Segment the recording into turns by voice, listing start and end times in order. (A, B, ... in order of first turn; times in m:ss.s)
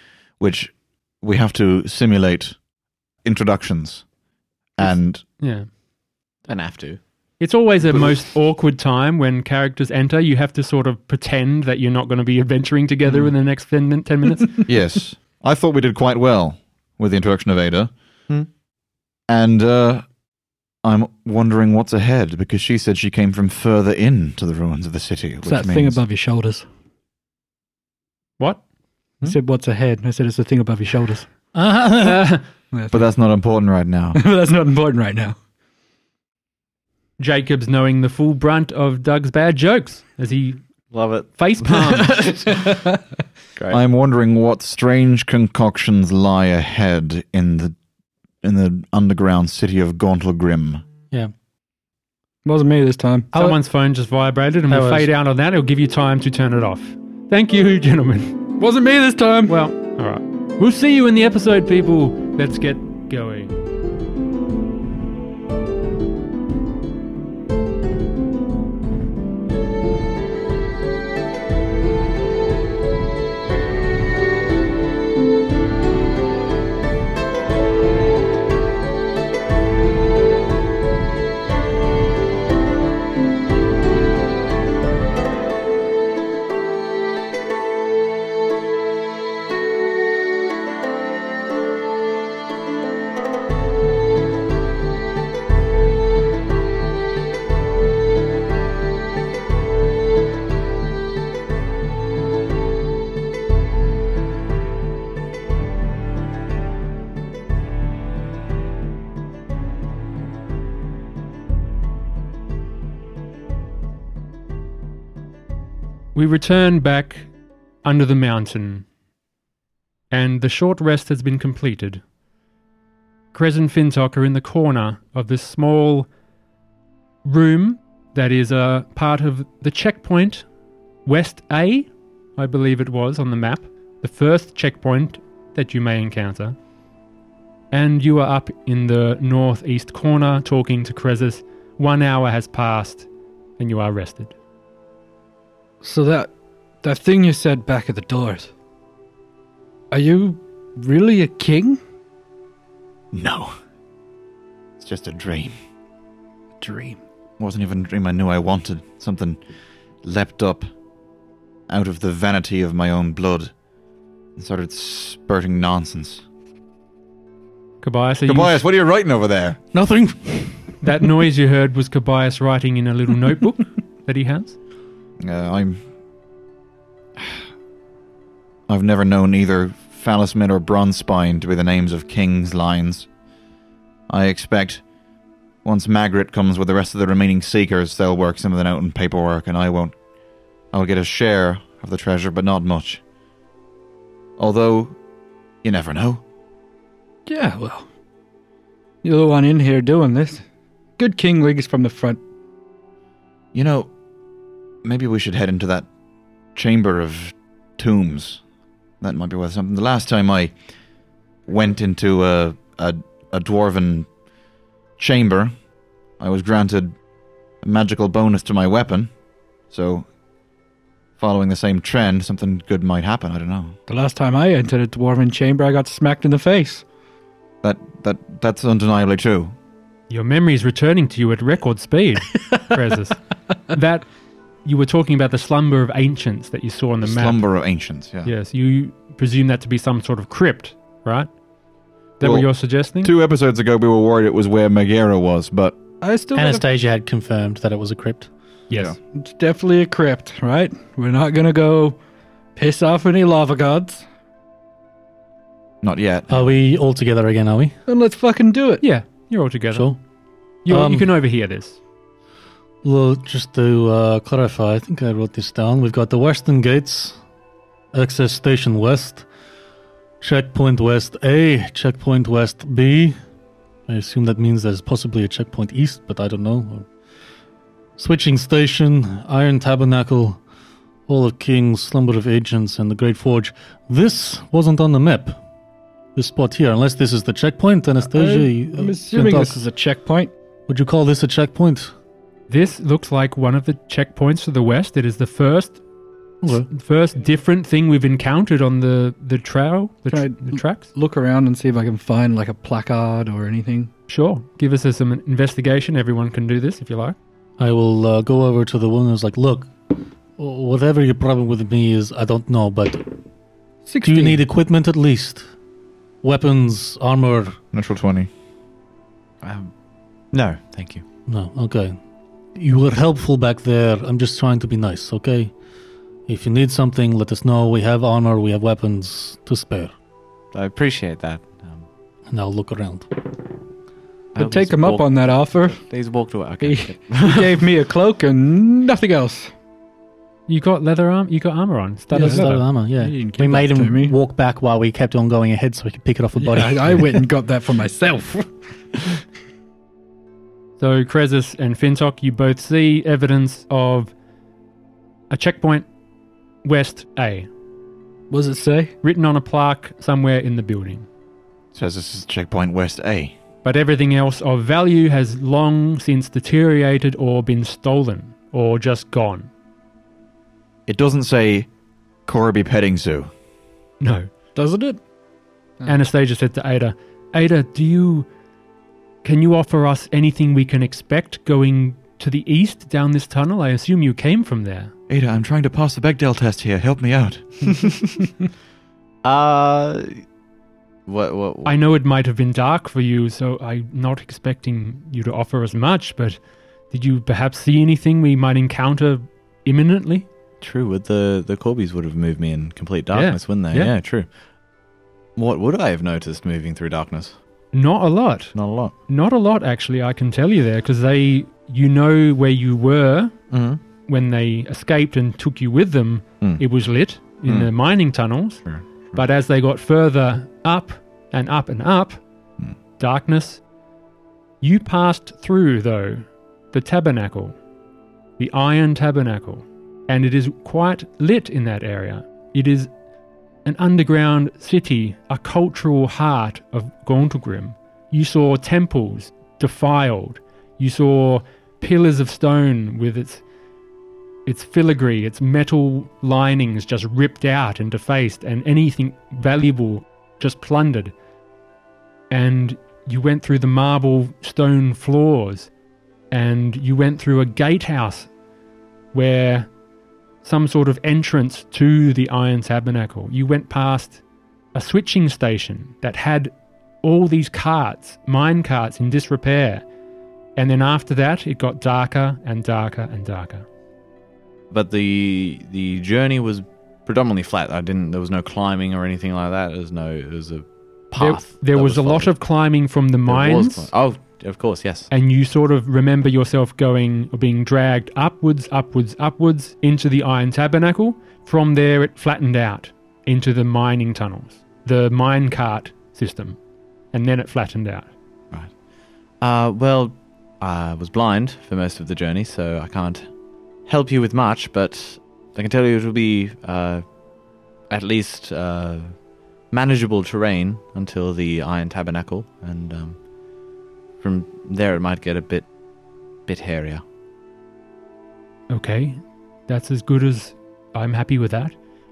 0:00.4-0:02.6 A
0:03.2-0:04.0 A
0:04.8-0:05.2 A
0:04.8-0:05.7 B
0:06.5-0:07.0 C
0:07.4-0:14.6 B
0:14.7-0:17.9 A
0:19.3-0:20.1 A
0:20.8-0:26.0 A
0:25.5-0:26.7 D
0:29.2-0:31.3 D
0:31.6-0:32.3 E
0:32.0-0:32.4 B
0:32.7-0:33.0 D
0:32.9-0:34.2 A
0:34.2-0:35.4 D
0:37.2-0:40.6 B
0:40.9-0:42.7 C
0:41.4-0:42.3 B
0:42.5-0:43.0 D
0:43.7-0:47.8 A
0:48.4-0:50.8 A
0:52.4-0:53.3 D
0:53.3-0:53.6 E
0:53.4-0:58.4 B
0:54.7-0:55.1 E
0:58.6-0:59.6 D
0:59.5-1:03.6 B
1:56.2-1:57.3 B
1:57.8-1:58.9 B
2:00.1-2:02.0 B
2:03.3-2:06.1 B
2:07.2-2:10.4 B
2:11.0-2:16.6 B
2:17.7-2:23.1 B
2:23.6-2:24.3 B
2:25.8-2:26.3 D
2:26.8-2:28.5 D
2:29.9-2:31.8 D
2:33.1-2:33.5 A
2:34.8-2:35.5 A
2:36.6-2:37.0 D
2:37.4-2:39.4 A
2:40.0-2:40.7 A
2:41.7-2:43.5 A
2:44.4-2:46.2 A
2:47.8-2:48.6 B
2:48.3-2:49.6 A
2:49.7-2:50.6 E
2:50.8-2:54.6 B
2:55.2-2:55.8 A
2:58.7-3:03.1 A
3:04.1-3:04.8 A
3:05.6-3:10.0 A
3:10.7-3:13.0 A
3:14.4-3:15.0 A
3:15.6-3:16.2 A
3:17.3-3:17.9 D
3:19.0-3:20.4 D
3:21.0-3:22.2 D
3:23.5-3:23.9 A
3:24.8-3:25.9 A
3:26.6-3:28.4 A
3:29.0-3:30.5 A
3:31.5-3:34.1 A
3:35.0-3:35.5 A
3:36.2-3:37.0 A
3:37.6-3:39.1 A
3:39.7-3:40.1 A
3:41.2-3:43.8 A
3:43.9-3:46.8 D
3:47.6-3:49.6 A
3:50.1-3:54.1 B
3:54.6-3:57.4 B
3:57.0-3:58.3 A
3:58.2-4:01.3 B
4:02.2-4:03.1 B
4:02.2-4:02.5 A
4:03.0-4:05.8 A
4:06.0-4:06.6 D
4:06.4-4:08.3 E
4:09.1-4:12.0 D
4:12.6-4:14.1 D
4:15.8-4:16.3 A
4:16.3-4:17.7 E
4:17.9-4:18.8 D
4:18.8-4:19.9 B
4:19.7-4:20.0 E
4:20.6-4:21.8 B
4:20.7-4:21.1 E
4:22.8-4:27.2 E
4:27.9-4:29.3 E
4:30.2-4:33.2 E
4:33.9-4:36.9 E
4:38.0-4:40.4 E
4:41.1-4:45.4 E
4:46.2-4:49.6 E
4:48.1-4:50.3 D
4:50.7-4:51.9 E
4:52.5-4:55.8 B
4:56.4-4:56.7 E
4:56.5-5:00.9 B
5:00.1-5:03.9 D
5:04.1-5:07.2 B
5:07.6-5:13.1 E
5:13.9-5:14.4 D
5:14.0-5:15.5 E
5:16.2-5:17.6 E
5:17.7-5:18.3 A
5:19.4-5:19.7 C
5:20.3-5:21.0 C
5:21.3-5:22.0 E
5:22.6-5:25.5 E
5:26.3-5:29.9 E
5:30.5-5:31.8 C
5:32.3-5:33.1 E
5:34.4-5:37.6 C
5:34.4-5:35.8 D
5:36.6-5:39.5 D
5:40.5-5:42.6 B
5:42.1-5:42.5 D
5:42.1-5:47.2 E
5:43.0-5:44.2 D
5:46.4-5:48.5 D
5:50.8-5:54.1 B
5:55.3-5:55.9 B
5:56.6-5:57.5 B
5:58.3-5:58.9 D
5:59.0-6:01.1 B
6:01.7-6:03.3 A
6:03.6-6:09.5 B
6:10.9-6:11.7 A
6:12.3-6:13.3 A
6:14.0-6:14.3 B
6:14.6-6:15.0 D
6:15.8-6:18.3 B
6:19.2-6:24.9 B
6:25.1-6:27.9 A
6:29.2-6:30.2 C
6:31.1-6:31.8 C
6:31.6-6:36.4 B
6:36.9-6:40.3 B
6:40.6-6:44.3 C
6:43.1-6:44.0 B
6:45.4-6:47.4 C
6:47.7-6:48.6 B
6:48.6-6:48.9 C
6:49.1-6:53.4 B
6:53.5-6:53.8 C
6:54.1-7:02.2 B
6:58.7-6:59.2 C
7:03.0-7:03.6 B
7:04.6-7:07.6 B
7:08.4-7:12.9 B
7:13.6-7:23.4 B
7:24.5-7:31.2 B
7:32.3-7:35.7 B
7:36.3-7:38.3 B
7:39.1-7:39.7 B
7:40.4-7:44.2 B
7:44.7-7:49.8 B
7:50.6-7:53.6 B
7:54.7-8:02.3 C
8:01.2-8:03.9 B
8:03.3-8:05.1 C
8:05.1-8:16.6 B
8:17.1-8:18.1 B
8:19.4-8:23.3 C
8:23.9-8:27.0 C
8:27.9-8:29.2 C
8:29.7-8:33.2 C
8:34.2-8:35.7 C
8:36.5-8:37.0 C
8:38.7-8:41.7 B